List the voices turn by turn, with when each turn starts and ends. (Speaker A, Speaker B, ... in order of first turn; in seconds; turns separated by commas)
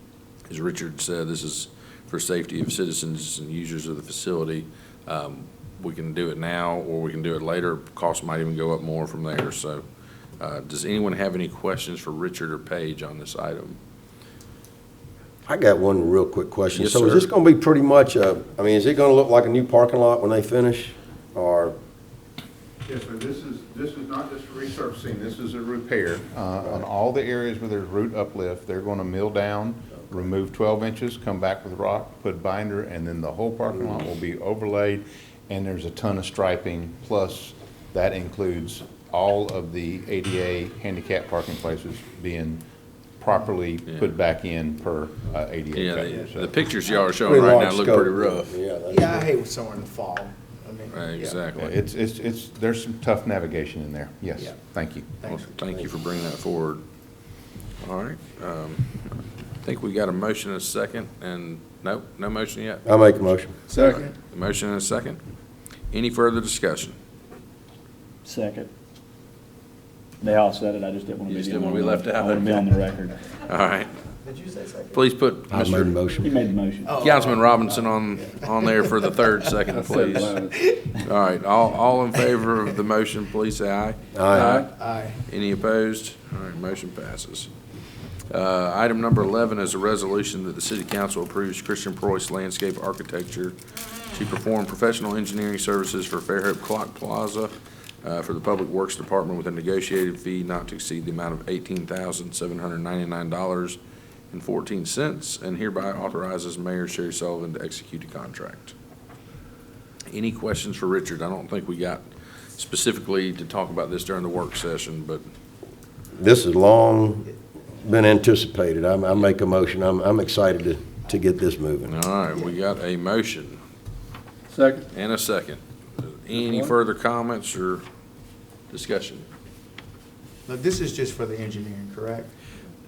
Speaker A: 0.5-9.8, Speaker A: 10.4-13.8, Speaker B: 15.4-21.7, Speaker A: 16.7-17.3, Speaker C: 22.8-42.6, Speaker C: 43.2-46.6, Speaker A: 43.9-44.1, Speaker A: 45.7-48.5, Speaker B: 47.2-49.3, Speaker D: 48.9-51.5, Speaker A: 50.9-51.8, Speaker C: 51.5-55.1, Speaker D: 54.4-55.5, Speaker A: 55.3-56.8, Speaker A: 57.8-65.2, Speaker B: 62.9-63.6, Speaker D: 63.7-64.1, Speaker A: 65.9-67.0, Speaker E: 68.2-68.7, Speaker E: 70.2-73.2, Speaker A: 71.3-72.7, Speaker A: 73.3-73.9, Speaker D: 74.2-75.0, Speaker A: 74.9-75.9, Speaker B: 75.5-76.3, Speaker E: 76.2-77.3, Speaker D: 76.8-79.1, Speaker A: 77.0-84.7, Speaker D: 80.3-80.9, Speaker B: 84.1-84.6, Speaker D: 84.5-85.2, Speaker A: 85.2-87.5, Speaker A: 88.3-93.5, Speaker A: 94.1-103.8, Speaker A: 104.3-108.7, Speaker A: 110.1-115.2, Speaker B: 116.1-121.9, Speaker A: 121.8-123.6, Speaker A: 124.9-127.8, Speaker A: 128.7-129.3, Speaker D: 130.5-132.3